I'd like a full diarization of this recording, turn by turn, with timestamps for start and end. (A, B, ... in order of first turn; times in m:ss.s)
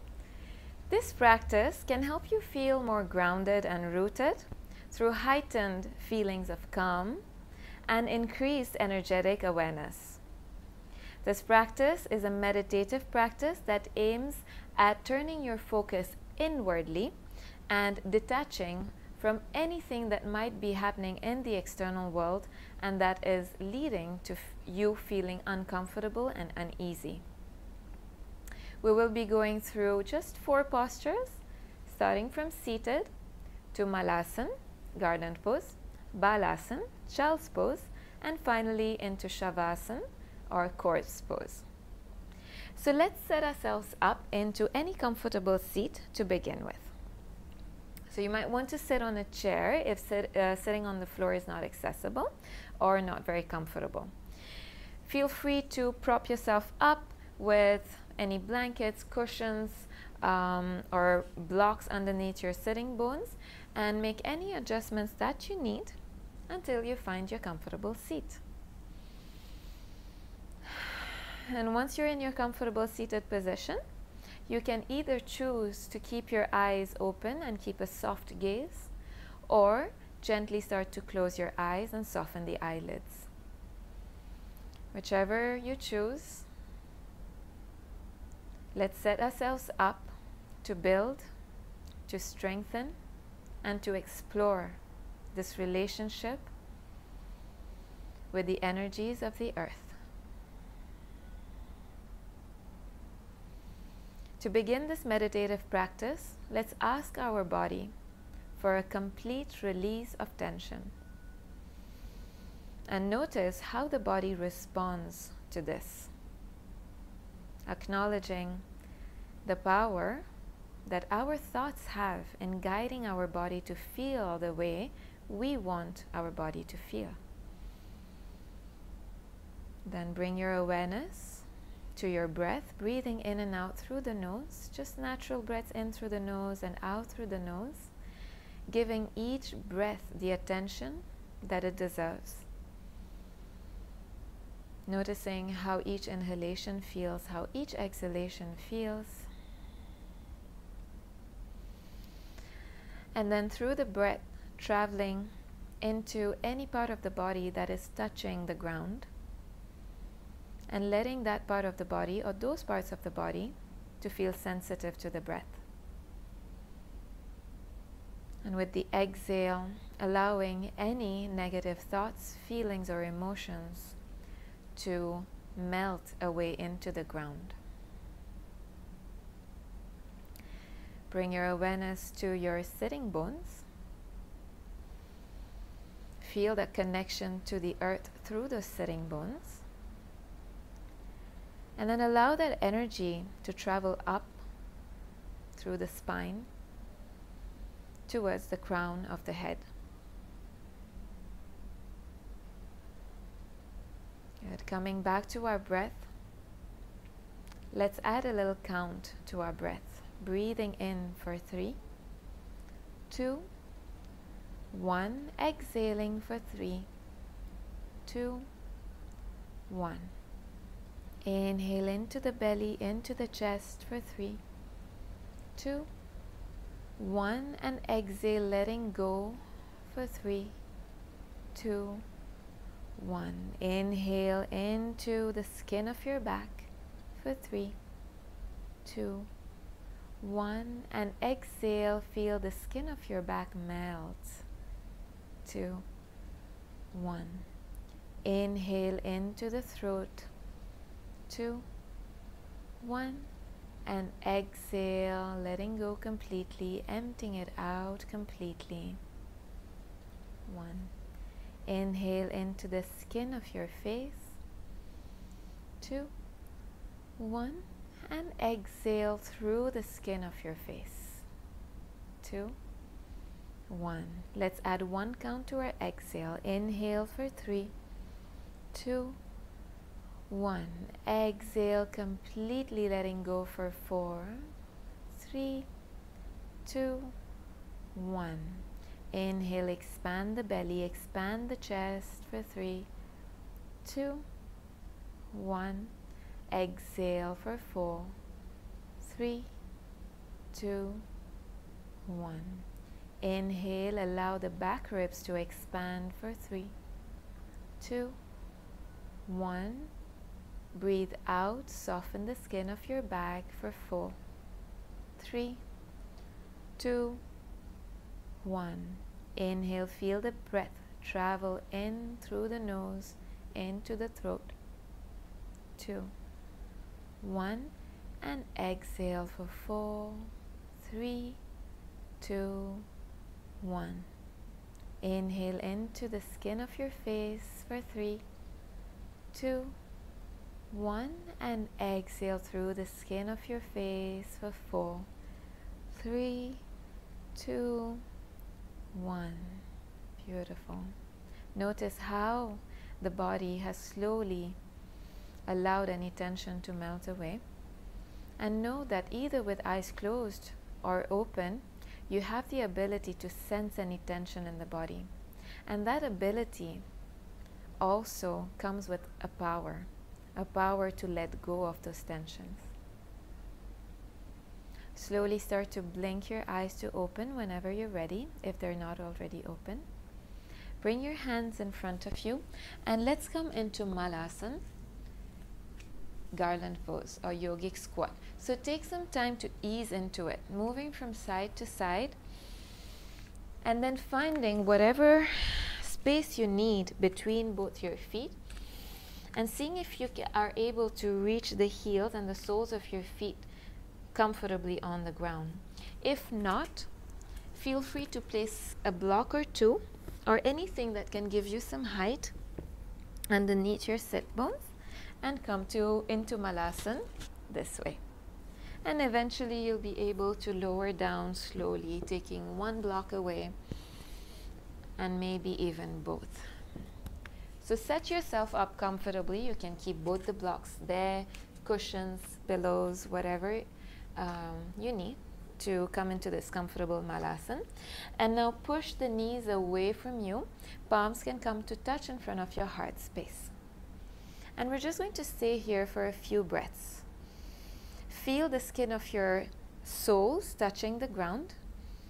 0:00.9-0:07.2 A
0:07.9-0:10.2 A
0:11.2-0:17.2 A
0:17.7-0:27.2 A
0:28.8-0:33.1 A
0:33.7-0:41.7 A
0:42.8-0:46.9 A
0:48.1-0:54.1 A
0:55.0-1:06.0 A
1:06.5-1:08.4 A
1:10.7-1:13.8 A
1:14.5-1:18.9 A
1:19.5-1:23.3 A
1:24.9-1:26.5 A
1:28.7-1:31.3 A
1:32.1-1:33.0 A
1:33.6-1:34.8 A
1:35.3-1:36.5 A
1:38.3-1:40.0 A
1:44.4-1:47.9 A
1:48.6-1:51.0 A
1:52.9-1:56.1 A
1:57.7-1:58.6 A
1:59.4-2:00.3 A
2:00.9-2:07.2 A
2:09.8-2:17.9 A
2:18.7-2:22.5 A
2:24.9-2:29.3 A
2:33.2-2:35.3 A
2:35.8-2:39.1 A
2:40.7-2:45.6 A
2:48.4-2:54.0 A
2:54.8-2:57.6 A
3:01.1-3:03.6 A
3:06.2-3:09.6 A
3:11.8-3:14.4 A
3:15.6-3:16.5 A
3:18.1-3:19.7 A
3:24.4-3:26.1 A
3:27.7-3:31.8 A
3:33.1-3:33.5 A
3:34.7-3:36.9 A
3:38.1-3:38.5 A
3:39.7-3:40.1 A
3:41.2-3:44.4 A
3:45.6-3:45.9 A
3:47.0-3:50.6 A
3:51.5-3:52.0 A
3:53.0-3:57.8 A
3:58.8-3:59.3 A
4:00.2-4:04.4 A
4:05.4-4:05.8 A
4:06.9-4:07.5 A
4:08.2-4:10.3 A
4:11.3-4:11.7 A
4:12.8-4:13.3 A
4:13.9-4:19.0 A
4:20.5-4:20.9 A
4:21.7-4:24.4 A
4:25.8-4:26.1 A
4:27.2-4:31.3 A
4:32.2-4:32.6 A
4:33.7-4:37.7 A
4:38.7-4:39.2 A
4:40.3-4:44.4 A
4:45.1-4:45.7 A
4:46.6-4:47.2 A
4:48.0-4:52.9 A
4:53.8-4:54.2 A
4:55.3-4:55.9 A
4:56.5-4:58.2 A
4:59.0-4:59.5 A
5:00.5-5:01.0 A
5:02.0-5:02.7 A
5:03.2-5:06.7 A
5:07.8-5:08.2 A
5:09.3-5:09.9 A
5:10.7-5:14.2 A
5:15.2-5:15.6 A
5:16.8-5:17.2 A
5:18.4-5:24.5 A
5:25.8-5:26.1 A
5:27.2-5:31.4 A
5:32.2-5:32.9 A
5:33.6-5:34.1 A
5:35.0-5:38.2 A
5:39.3-5:39.8 A
5:40.7-5:45.1 A
5:45.9-5:46.6 A
5:47.4-5:48.0 A
5:48.9-5:49.6 A
5:50.2-5:50.9 A
5:51.6-5:54.6 A
5:55.5-5:57.4 A
5:58.4-6:05.1 A
6:05.7-6:06.8 A
6:07.8-6:12.7 A
6:15.0-6:19.9 A
6:20.8-6:24.6 A
6:26.3-6:32.2 A
6:33.6-6:38.4 A
6:39.3-6:43.5 A
6:44.1-6:46.9 A
6:47.5-6:52.3 A
6:53.3-6:58.0 A
6:58.8-7:03.6 A
7:05.0-7:06.4 A
7:07.6-7:17.7 A
7:18.2-7:23.5 A
7:24.6-7:27.0 A
7:28.1-7:31.6 A